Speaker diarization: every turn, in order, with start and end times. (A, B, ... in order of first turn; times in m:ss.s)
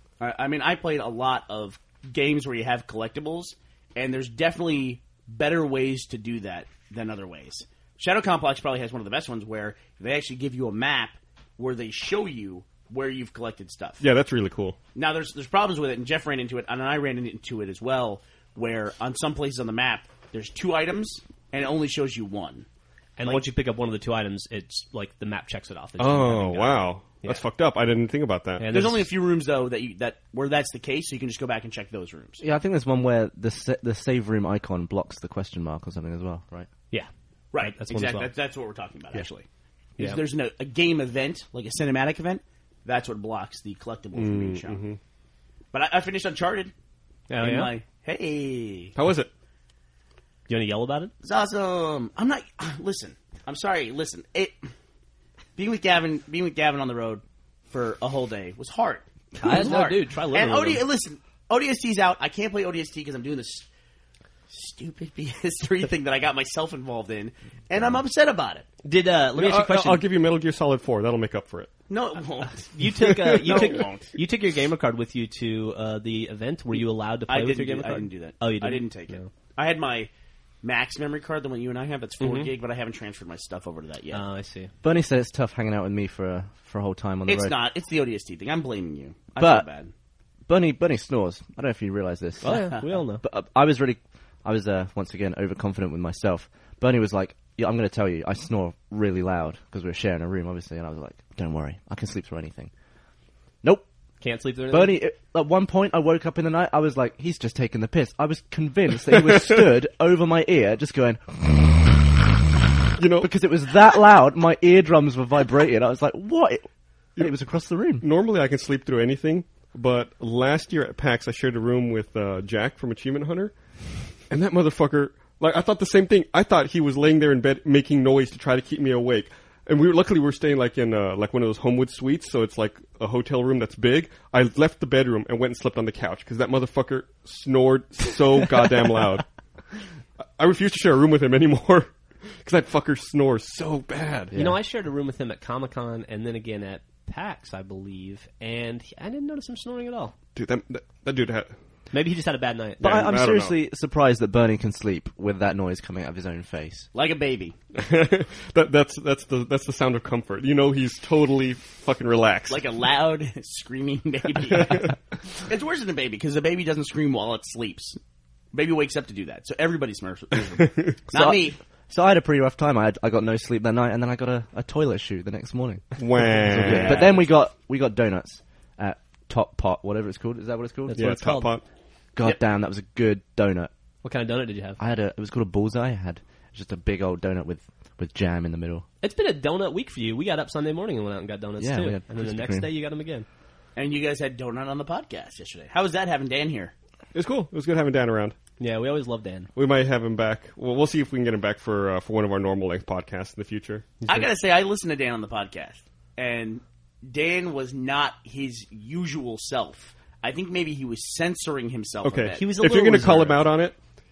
0:00.2-0:14.0 A
0:14.0-0:14.8 B
0:15.0-0:22.7 A
0:23.2-0:27.4 C
0:26.0-0:28.7 B
0:28.6-0:29.1 C
0:28.7-0:32.4 A
0:32.4-0:36.7 D
0:36.9-0:38.3 C
0:37.5-0:39.5 A
0:40.0-0:44.8 A
0:44.2-0:45.0 B
0:45.7-0:46.7 A
0:47.3-0:47.7 C
0:47.4-0:49.0 A
0:49.0-0:49.3 B
0:50.5-0:51.1 C
0:51.2-0:54.6 A
0:55.6-1:03.7 A
0:59.4-1:00.8 C
1:04.5-1:08.7 A
1:08.8-1:10.0 C
1:09.4-1:11.7 B
1:11.9-1:12.7 A
1:12.5-1:19.3 C
1:12.9-1:13.8 B
1:13.4-1:14.1 A
1:17.3-1:20.1 A
1:20.6-1:24.2 A
1:22.2-1:22.5 C
1:24.1-1:24.7 C
1:24.8-1:27.6 D
1:27.3-1:29.9 A
1:29.4-1:29.7 D
1:30.5-1:42.7 D
1:32.4-1:33.2 C
1:32.4-1:32.8 A
1:44.2-1:45.0 C
1:44.7-1:52.0 D
1:49.3-1:49.6 B
1:53.0-1:53.3 B
1:53.2-1:58.0 D
1:58.0-2:03.5 B
2:04.3-2:19.3 B
2:20.4-2:24.4 B
2:24.3-2:24.6 D
2:24.3-2:30.2 C
2:30.4-2:31.5 B
2:31.9-2:32.9 C
2:32.8-2:33.6 B
2:32.8-2:36.9 D
2:36.9-2:37.6 A
2:37.7-2:42.6 B
2:42.5-2:48.0 A
2:48.5-2:51.6 A
2:50.6-2:51.0 B
2:51.1-3:01.1 D
2:56.0-2:57.2 B
2:56.6-2:57.3 A
3:00.9-3:01.6 C
3:01.0-3:01.6 B
3:02.1-3:03.7 D
3:04.0-3:04.8 C
3:04.8-3:08.9 D
3:09.0-3:13.3 C
3:11.6-3:12.7 D
3:13.8-3:16.7 A
3:17.1-3:18.4 B
3:18.6-3:19.5 C
3:19.6-3:23.9 B
3:24.0-3:24.3 C
3:24.1-3:32.5 A
3:32.0-3:33.8 B
3:32.4-3:33.5 C